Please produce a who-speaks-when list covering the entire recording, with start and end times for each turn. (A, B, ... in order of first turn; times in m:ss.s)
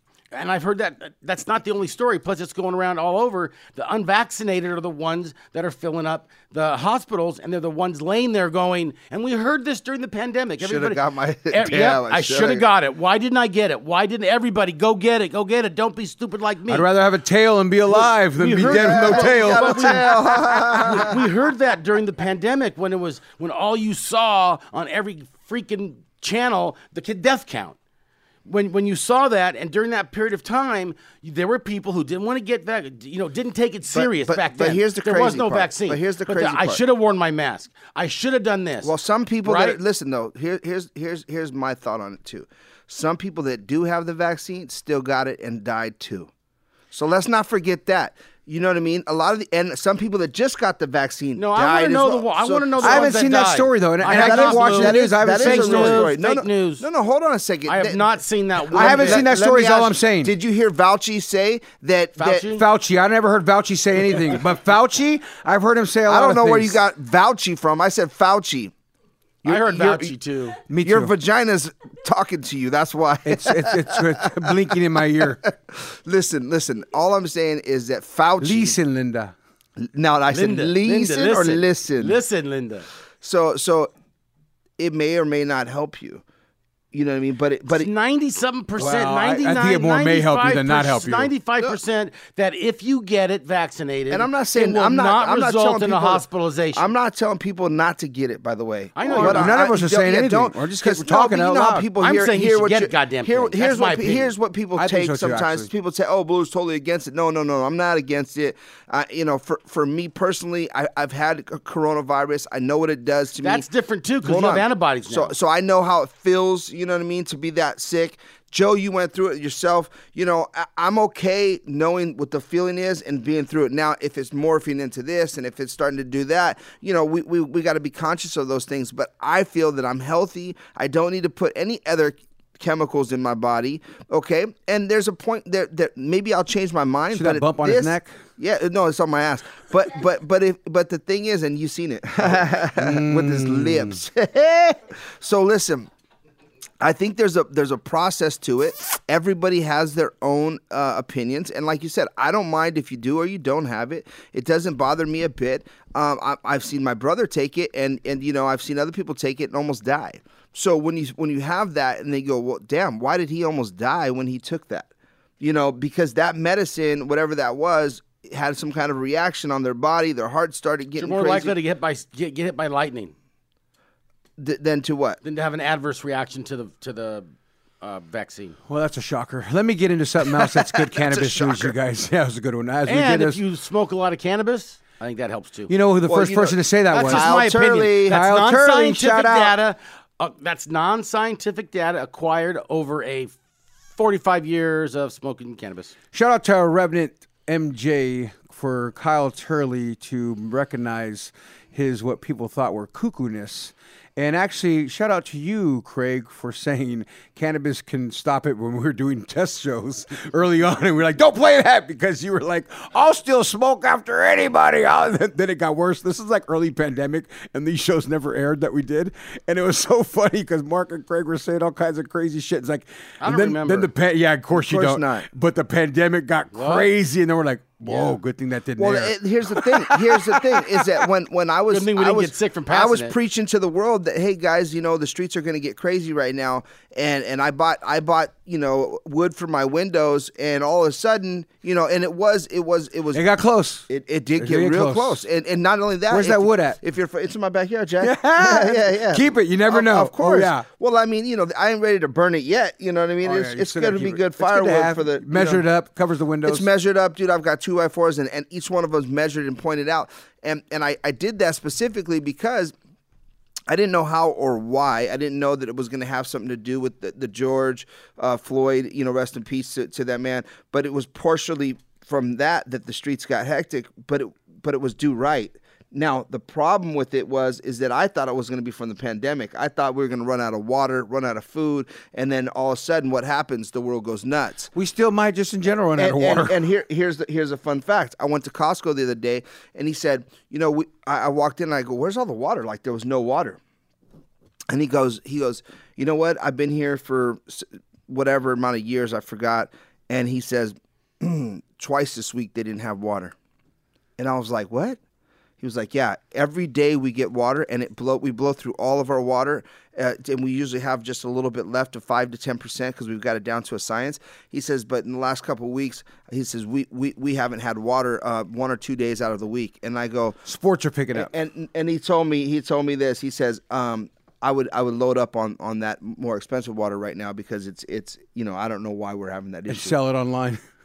0:00.3-0:16.9 A
0:10.6-0:12.6 B
0:16.7-0:21.1 C
0:17.9-0:27.8 A
0:18.6-0:21.2 B
0:28.4-0:39.8 A
0:33.9-0:36.8 B
0:38.8-0:46.3 B
0:46.9-0:53.2 B
0:51.4-0:56.8 A
0:52.8-0:56.1 C
0:54.0-0:58.0 B
0:57.7-0:59.2 A
0:58.7-1:02.5 B
0:58.7-1:00.3 C
1:02.2-1:02.6 A
1:02.5-1:06.8 C
1:06.1-1:08.7 B
1:09.4-1:10.1 B
1:09.4-1:10.6 A
1:10.7-1:11.1 C
1:10.8-1:14.3 B
1:13.2-1:15.4 C
1:15.7-1:18.8 B
1:18.4-1:19.3 C
1:19.8-1:22.2 B
1:20.3-1:22.9 A
1:23.2-1:23.9 B
1:24.8-1:26.2 B
1:26.9-1:27.9 B
1:27.7-1:36.9 A
1:28.8-1:31.3 C
1:34.1-1:36.2 B
1:36.8-1:53.6 B
1:38.9-1:39.6 A
1:39.1-1:41.9 C
1:42.0-1:44.3 A
1:44.8-1:45.7 C
1:53.4-1:55.3 A
1:54.2-2:25.9 B
2:17.1-2:18.1 C
2:22.3-2:24.0 C
2:26.8-2:44.9 B
2:45.4-2:51.6 B
2:51.0-2:53.1 A
2:54.4-2:55.2 B
2:55.2-2:57.3 A
2:57.8-2:58.6 A
2:58.7-3:03.4 C
3:00.4-3:01.7 B
3:02.8-3:05.7 A
3:05.7-3:07.3 C
3:06.1-3:08.2 B
3:06.9-3:13.4 A
3:08.1-3:09.6 C
3:13.9-3:15.9 A
3:16.1-3:50.9 C
3:43.2-3:43.9 A
3:44.5-3:45.2 B
3:46.5-3:46.9 A
3:48.8-4:03.2 B
3:51.7-3:53.2 A
4:03.1-4:05.2 C
4:03.9-4:15.6 B
4:06.1-4:06.8 C
4:08.0-4:10.7 C
4:13.2-4:16.7 C
4:16.4-4:22.7 B
4:23.7-4:44.7 B
4:44.7-4:46.7 C
4:46.0-4:53.6 B
4:54.7-5:03.3 B
5:04.2-5:05.0 B
5:05.6-5:20.4 B
5:20.4-5:21.3 C
5:21.1-5:30.0 B
5:29.7-5:30.6 C